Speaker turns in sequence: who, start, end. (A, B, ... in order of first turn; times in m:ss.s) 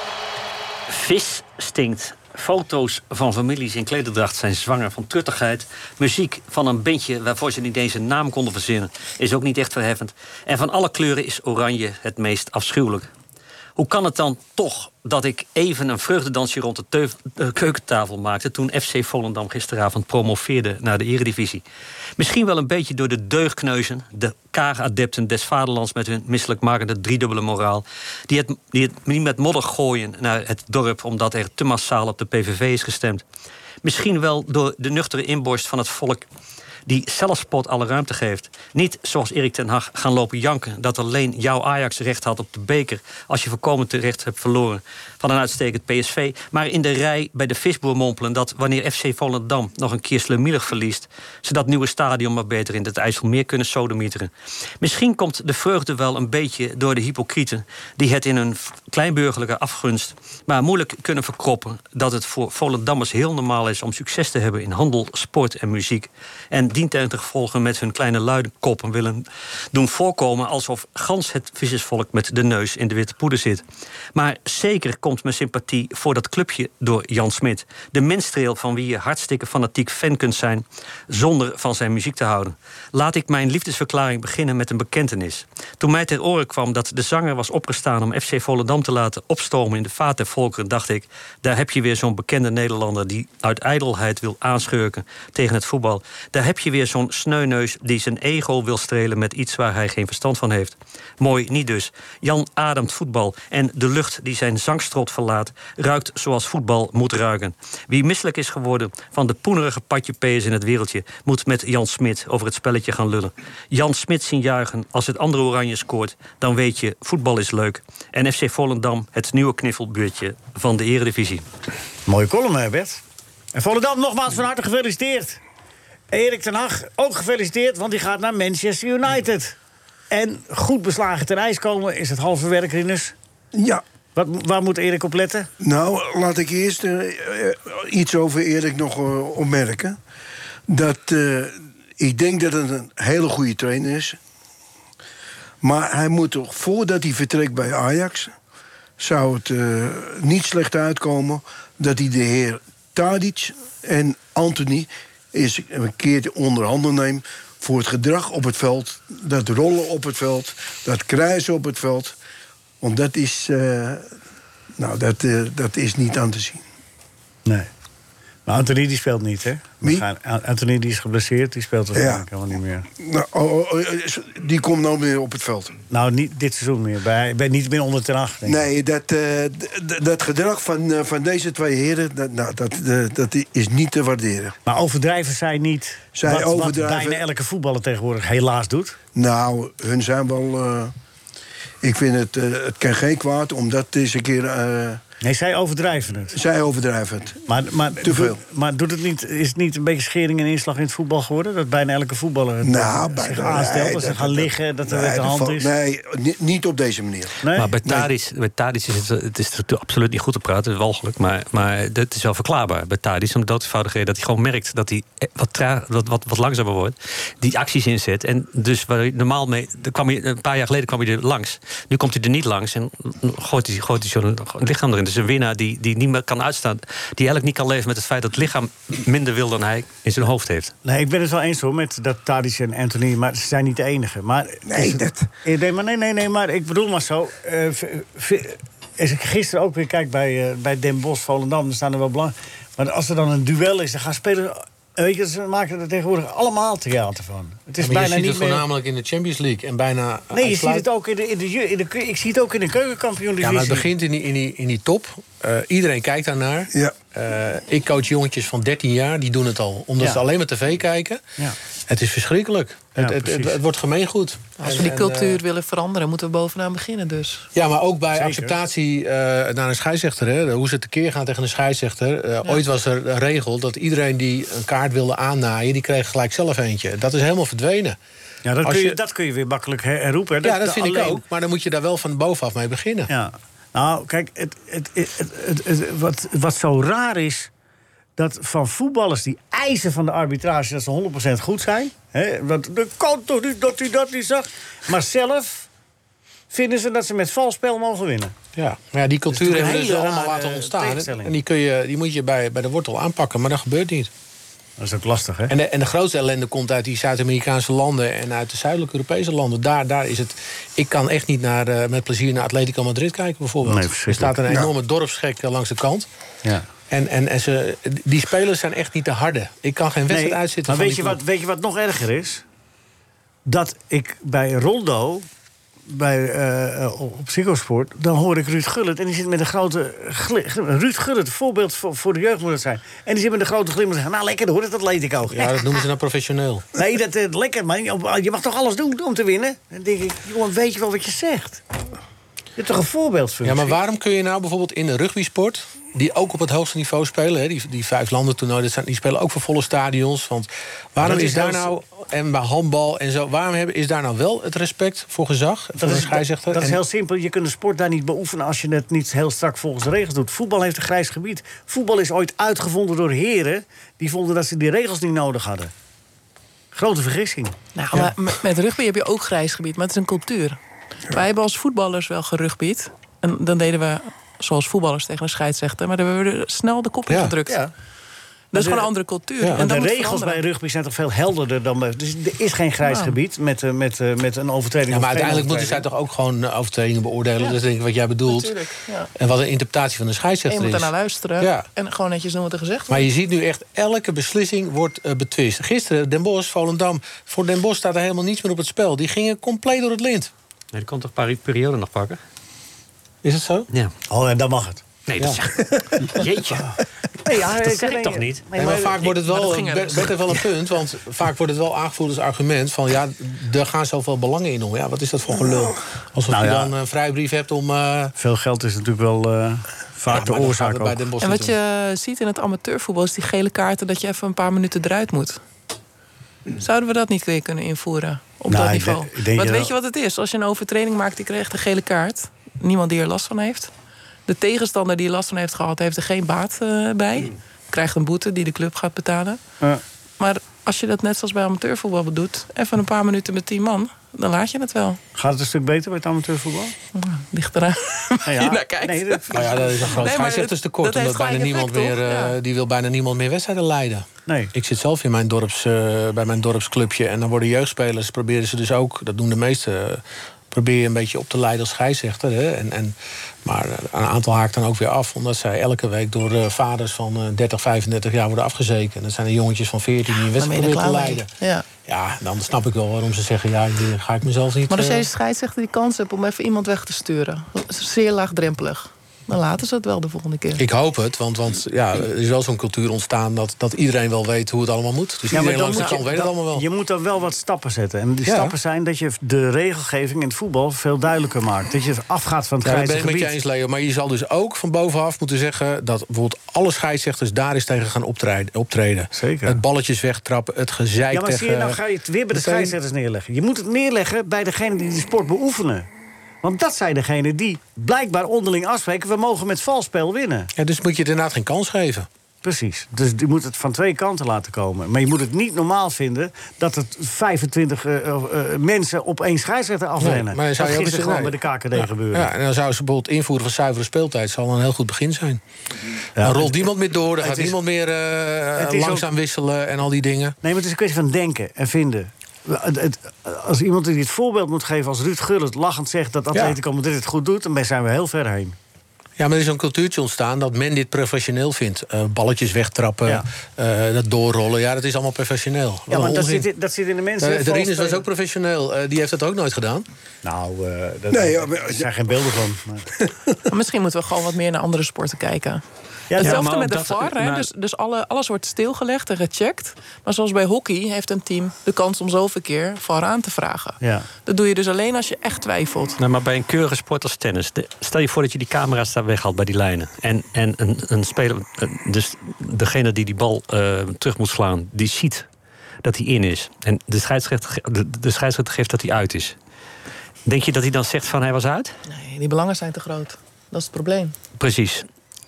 0:00.9-0:13.1 A
0:13.8-0:21.6 A
0:22.2-0:33.2 A
0:33.8-0:36.2 A
0:36.8-1:13.6 A
1:14.1-2:01.4 A
2:02.1-2:03.0 B
2:03.5-2:05.4 B
2:06.1-2:09.6 B
2:10.1-2:13.1 B
2:13.5-2:13.8 C
2:14.2-2:15.5 B
2:15.6-2:20.0 C
2:20.7-2:24.2 C
2:25.6-2:28.3 C
2:29.0-2:42.2 C
2:42.8-2:44.1 C
2:44.8-2:46.6 C
2:48.5-2:52.9 B
2:51.9-2:52.2 C
2:53.0-2:55.8 C
2:55.9-2:58.6 B
2:58.4-3:04.5 C
3:04.6-3:09.0 B
3:06.2-3:07.2 C
3:09.1-3:10.9 C
3:11.8-3:15.0 C
3:15.2-3:16.4 B
3:16.3-3:17.4 C
3:17.5-3:25.7 B
3:18.0-3:18.4 C
3:22.6-3:28.1 C
3:27.4-3:27.7 B
3:27.5-3:50.7 A
3:50.8-4:08.6 B
3:54.7-3:55.3 C
4:07.8-4:10.8 D
4:10.3-4:13.9 B
4:13.4-4:21.2 D
4:21.9-4:25.4 D
4:23.0-4:23.6 B
4:24.6-4:27.5 E
4:27.5-4:38.0 D
4:28.1-4:28.6 B
4:38.4-4:41.2 B
4:38.6-4:39.0 D
4:40.4-4:43.1 D
4:43.1-4:47.5 B
4:48.2-4:55.7 B
4:56.5-4:58.3 B
4:58.5-5:04.1 D
4:59.3-5:01.3 B
5:04.8-5:05.5 B
5:05.5-5:16.1 D
5:13.6-5:14.4 B
5:16.9-5:21.2 D
5:20.1-5:22.4 B
5:23.5-5:25.2 B
5:25.9-5:35.8 B
5:35.3-5:36.6 D
5:36.8-5:41.6 B
5:42.6-5:43.8 B
5:43.4-5:56.8 D
5:51.0-5:51.7 B
5:55.8-6:05.7 B
6:06.7-6:07.6 B
6:07.7-6:10.6 E
6:11.1-6:17.6 E
6:17.1-6:17.4 D
6:18.5-6:20.4 E
6:18.5-6:18.9 B
6:19.5-6:25.8 B
6:22.8-6:23.2 E
6:24.9-6:28.6 D
6:28.2-6:29.1 E
6:29.2-6:31.7 D
6:30.5-6:33.1 E
6:32.9-6:40.3 D
6:40.7-6:42.2 A
6:43.2-6:43.7 D
6:44.1-6:45.4 B
6:45.1-6:46.8 A
6:47.2-6:49.1 B
6:47.3-6:48.4 A
6:48.6-6:58.1 D
6:49.0-6:50.4 E
6:56.3-6:56.7 B
6:58.2-7:01.0 B
7:00.1-7:01.6 D
7:01.2-7:05.4 E
7:06.5-7:13.7 E
7:08.5-7:09.7 B
7:14.3-7:19.4 E
7:20.2-7:25.0 E
7:25.1-7:26.7 B
7:26.9-7:32.4 E
7:28.2-7:30.1 B
7:29.3-7:55.0 D
7:34.3-7:34.5 B
7:50.2-7:51.7 E
7:54.7-8:00.6 E
8:00.6-8:06.6 D
8:05.3-8:13.3 B
8:05.7-8:06.0 E
8:08.2-8:08.6 D
8:12.6-8:21.8 D
8:19.1-8:19.6 B
8:21.1-8:25.9 B
8:22.3-8:22.7 D
8:26.4-8:30.5 B
8:30.6-8:32.1 D
8:32.4-8:42.3 B
8:40.0-8:45.4 D
8:46.2-8:47.6 B
8:46.2-8:50.4 D
8:48.6-8:49.1 B
8:50.4-8:58.6 B
8:59.2-9:06.5 D
9:05.9-9:08.0 B
9:07.2-9:09.8 D
9:10.2-9:12.9 B
9:11.1-9:11.9 C
9:13.5-9:15.6 E
9:16.1-9:16.4 B
9:16.2-9:26.0 E
9:16.2-9:17.5 A
9:23.8-9:24.1 B
9:26.0-9:35.3 A
9:35.8-9:39.4 A
9:40.2-9:41.7 A
9:41.9-9:44.2 E
9:44.4-9:44.8 A